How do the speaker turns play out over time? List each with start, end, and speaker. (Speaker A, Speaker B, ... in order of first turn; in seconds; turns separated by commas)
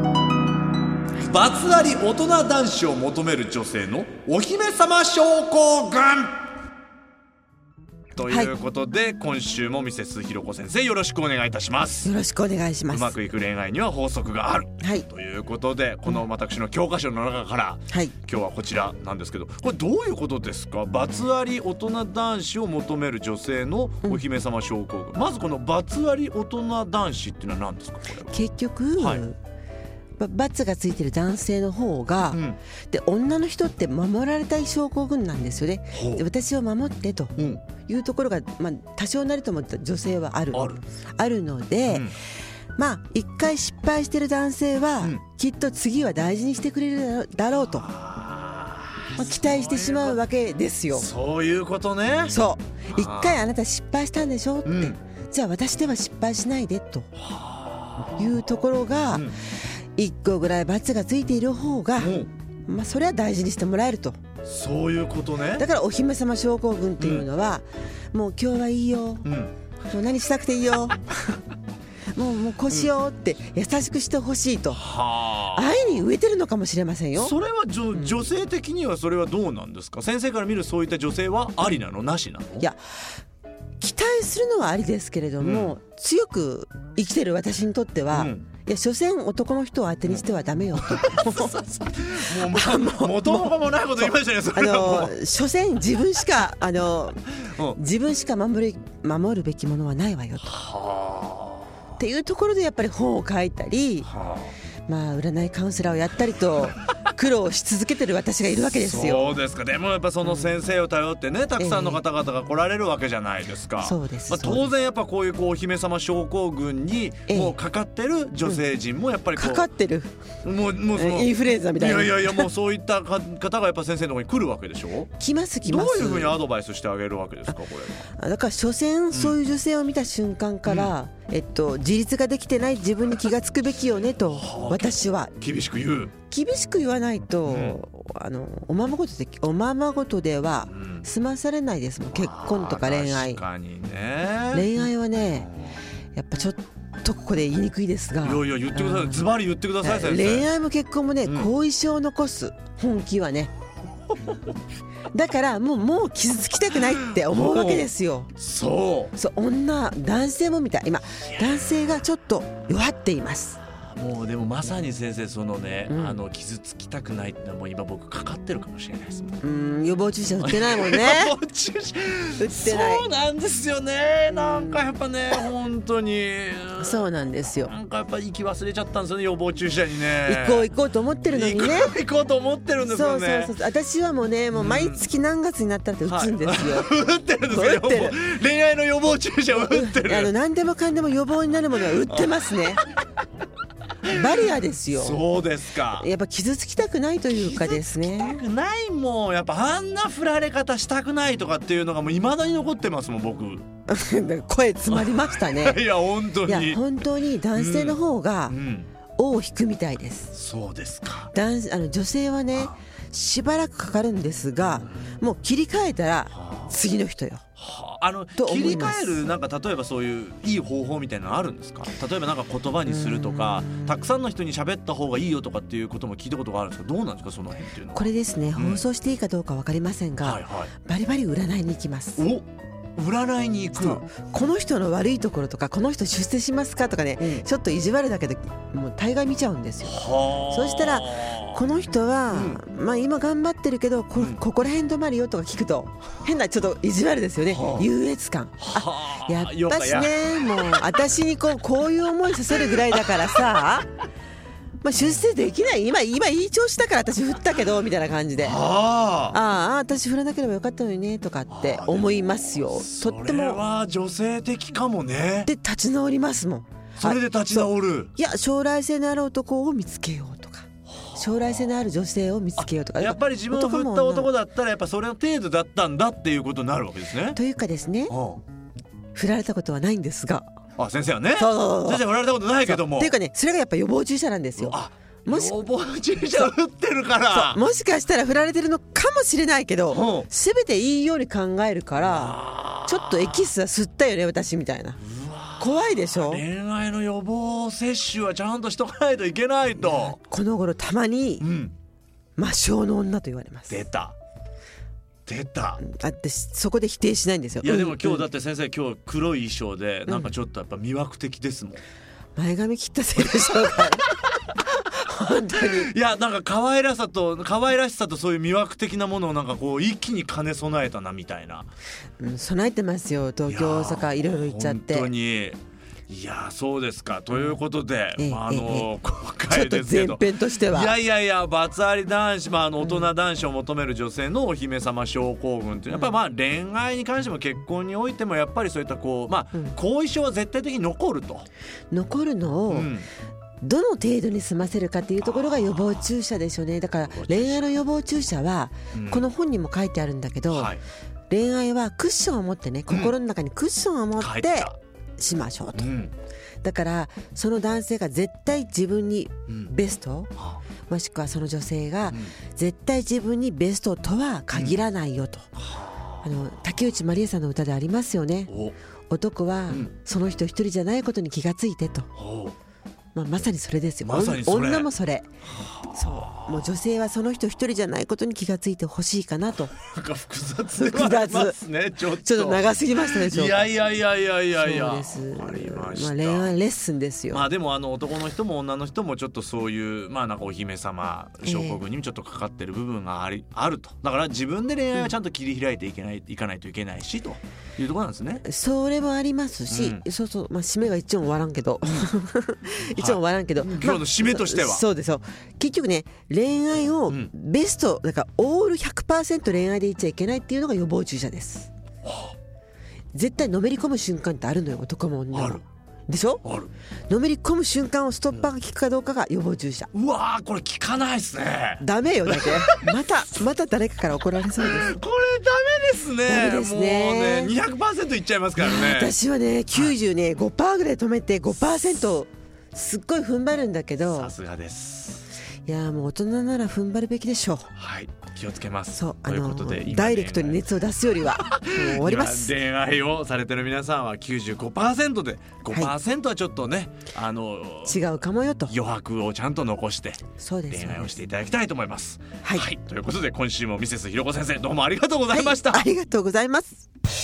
Speaker A: 1.2-6.4, Speaker A: 8.2-12.1, Speaker B: 12.0-13.2, Speaker A: 12.9-28.4, Speaker B: 14.8-15.1, Speaker B: 28.3-29.4, Speaker A: 29.0-29.2, Speaker B: 30.2-42.1, Speaker A: 32.3-32.6, Speaker A: 35.9-36.2, Speaker A: 37.4-37.6, Speaker A: 40.5-40.8, Speaker A: 41.9-42.2, Speaker B: 42.8-47.9, Speaker A: 47.8-50.2, Speaker B: 49.2-51.1, Speaker A: 50.9-53.4, Speaker B: 52.3-57.1, Speaker A: 54.6-55.0, Speaker A: 57.2-58.1, Speaker B: 58.2-59.3, Speaker B: 60.0-64.2, Speaker A: 62.0-62.3, Speaker A: 64.4-65.6, Speaker B: 65.6-69.3, Speaker A: 69.2-69.5, Speaker B: 69.9-71.1, Speaker B: 72.2-74.8, Speaker A: 74.7-75.7, Speaker B: 75.5-77.4, Speaker A: 77.2-82.7, Speaker B: 83.8-91.6, Speaker A: 85.4-85.8, Speaker A: 88.1-88.5, Speaker A: 90.8-95.2, Speaker B: 92.3-97.2, Speaker A: 97.4-97.8, Speaker B: 97.8-100.6, Speaker A: 100.5-101.7, Speaker B: 102.0-104.1, Speaker A: 104.1-104.5, Speaker B: 104.9-109.4, Speaker A: 108.7-119.7, Speaker B: 110.2-110.5, Speaker B: 111.6-112.0, Speaker B: 113.8-114.7, Speaker B: 117.3-117.6, Speaker B: 119.4-120.1, Speaker A: 120.4-125.1, Speaker B: 120.9-122.5, Speaker B: 125.2-126.4, Speaker A: 125.7-128.1, Speaker B: 128.2-135.4, Speaker A: 130.7-130.9, Speaker A: 134.3-136.1, Speaker B: 136.3-143.4, Speaker A: 137.5-137.8, Speaker A: 140.7-141.1, Speaker A: 142.2-144.8, Speaker B: 144.5-145.5, Speaker A: 145.4-145.8, Speaker B: 146.2-149.3, Speaker A: 148.2-150.5, Speaker B: 149.8-153.5, Speaker A: 151.2-151.5, Speaker B: 155.1-158.3, Speaker A: 157.0-159.1, Speaker B: 159.2-163.6, Speaker A: 161.3-161.7, Speaker A: 163.9-169.4, Speaker B: 165.9-166.2, Speaker B: 169.4-171.3, Speaker A: 170.4-177.1, Speaker B: 172.4-173.1, Speaker B: 174.3-174.9, Speaker B: 176.8-177.7, Speaker A: 177.7-180.7, Speaker B: 180.3-181.9, Speaker A: 181.3-183.5, Speaker B: 182.8-186.9, Speaker A: 184.5-185.1, Speaker A: 186.1-190.3, Speaker B: 187.5-188.2, Speaker B: 189.5-192.8, Speaker A: 192.1-192.3, Speaker B: 194.1-195.2, Speaker A: 194.9-196.1, Speaker B: 195.9-198.4, Speaker A: 197.3-203.7, Speaker B: 203.9-205.8, Speaker A: 204.9-206.8, Speaker B: 206.4-208.6, Speaker A: 207.6-208.9, Speaker B: 209.2-210.3, Speaker A: 210.3-211.3, Speaker B: 211.3-217.4, Speaker A: 216.3-216.7, Speaker A: 217.6-228.8, Speaker B: 218.4-219.2, Speaker B: 222.9-223.8, Speaker B: 227.9-232.2, Speaker A: 230.2-230.7, Speaker A: 232.2-232.5, Speaker A: 233.0-234.1, Speaker B: 233.8-253.9, Speaker A: 239.8-241.6, Speaker A: 242.3-242.6, Speaker A: 244.2-244.4, Speaker A: 247.5-247.9, Speaker A: 248.6-250.2, Speaker B: 254.8-258.6, Speaker A: 258.4-259.4, Speaker B: 259.3-263.6, Speaker A: 261.5-265.5, Speaker B: 265.5-274.3, Speaker A: 267.0-268.1, Speaker A: 270.9-271.2, Speaker A: 272.6-277.4, Speaker B: 277.4-278.1, Speaker A: 278.1-278.4, Speaker B: 279.1-280.5, Speaker A: 280.8-283.1, Speaker B: 281.4-282.0, Speaker B: 282.6-285.6, Speaker A: 284.6-287.6, Speaker B: 287.3-295.0, Speaker A: 289.9-290.3, Speaker A: 292.0-293.4, Speaker A: 295.0-300.2, Speaker B: 295.6-296.4, Speaker B: 299.8-301.4, Speaker A: 301.4-301.7, Speaker B: 302.4-303.8, Speaker A: 303.7-304.1, Speaker A: 305.3-305.8, Speaker B: 305.8-308.3, Speaker A: 307.6-311.8, Speaker B: 310.1-310.3, Speaker B: 312.4-314.1, Speaker A: 313.2-313.9, Speaker B: 315.0-315.9, Speaker A: 315.6-321.7, Speaker B: 322.2-325.1, Speaker A: 323.5-341.5, Speaker B: 328.2-328.9, Speaker B: 329.5-330.9, Speaker B: 332.8-333.1, Speaker B: 341.9-342.9, Speaker A: 342.7-343.1, Speaker B: 343.6-350.7, Speaker A: 345.2-346.1, Speaker A: 347.1-347.6, Speaker A: 348.9-349.2, Speaker A: 350.5-350.8, Speaker B: 351.3-355.9, Speaker A: 352.9-353.1, Speaker A: 354.2-354.8, Speaker A: 355.8-356.1, Speaker B: 356.6-360.3, Speaker B: 360.9-365.5, Speaker A: 362.1-362.4, Speaker A: 364.5-364.8, Speaker A: 365.6-366.0, Speaker B: 366.2-368.5, Speaker A: 368.5-368.8, Speaker B: 369.1-372.1, Speaker A: 372.2-372.6, Speaker B: 373.1-375.3, Speaker A: 374.0-374.9, Speaker B: 375.9-379.7, Speaker A: 379.8-386.5, Speaker B: 380.8-381.6, Speaker B: 382.2-383.7, Speaker B: 384.6-387.4, Speaker A: 387.3-398.4, Speaker B: 391.4-391.8, Speaker B: 398.4-411.7, Speaker A: 399.7-400.0, Speaker A: 402.9-404.9, Speaker A: 412.1-412.3, Speaker B: 413.1-416.4, Speaker A: 415.3-415.6, Speaker A: 416.4-416.7, Speaker B: 417.1-419.9, Speaker A: 419.9-422.9, Speaker B: 421.8-425.0, Speaker A: 424.6-429.1, Speaker B: 426.3-427.6, Speaker B: 428.6-434.3, Speaker A: 434.0-435.3, Speaker B: 435.7-437.7, Speaker A: 437.8-440.7, Speaker B: 438.9-442.5, Speaker A: 441.3-448.1, Speaker B: 447.9-448.7, Speaker A: 448.7-455.9, Speaker B: 450.4-451.2, Speaker B: 452.4-452.7, Speaker B: 455.3-456.9